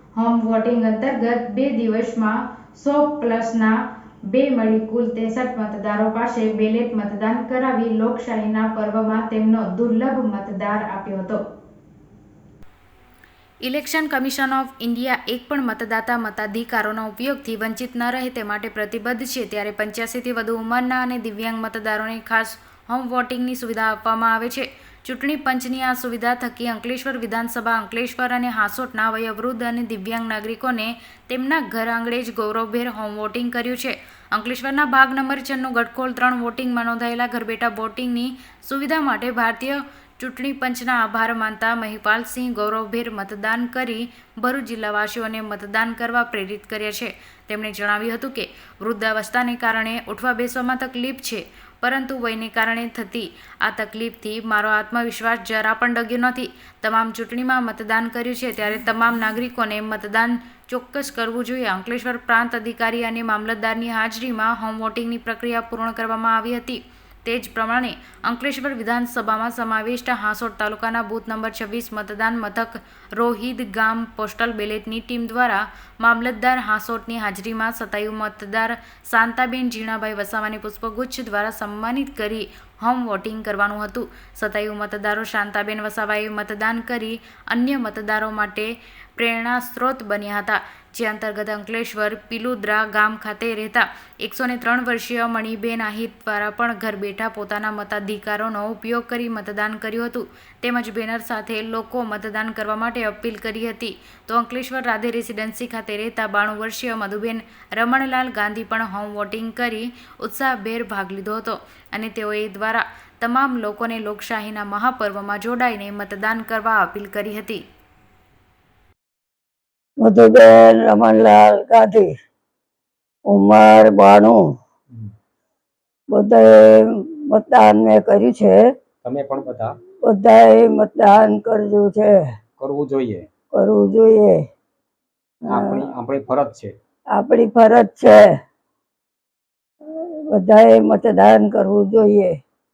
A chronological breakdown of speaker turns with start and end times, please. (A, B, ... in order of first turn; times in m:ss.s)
0:00.2-0:03.8 A
0:04.3-0:11.4 A
0:13.6-1:57.6 A
2:00.0-2:02.1 B
2:03.3-2:04.5 B
2:06.1-2:08.6 B
2:09.0-2:09.7 C
2:10.0-2:12.2 B
2:12.6-2:13.3 C
2:13.5-2:14.5 B
2:15.4-2:15.8 B
2:15.5-2:16.8 C
2:17.2-2:18.3 B
2:20.3-2:22.4 B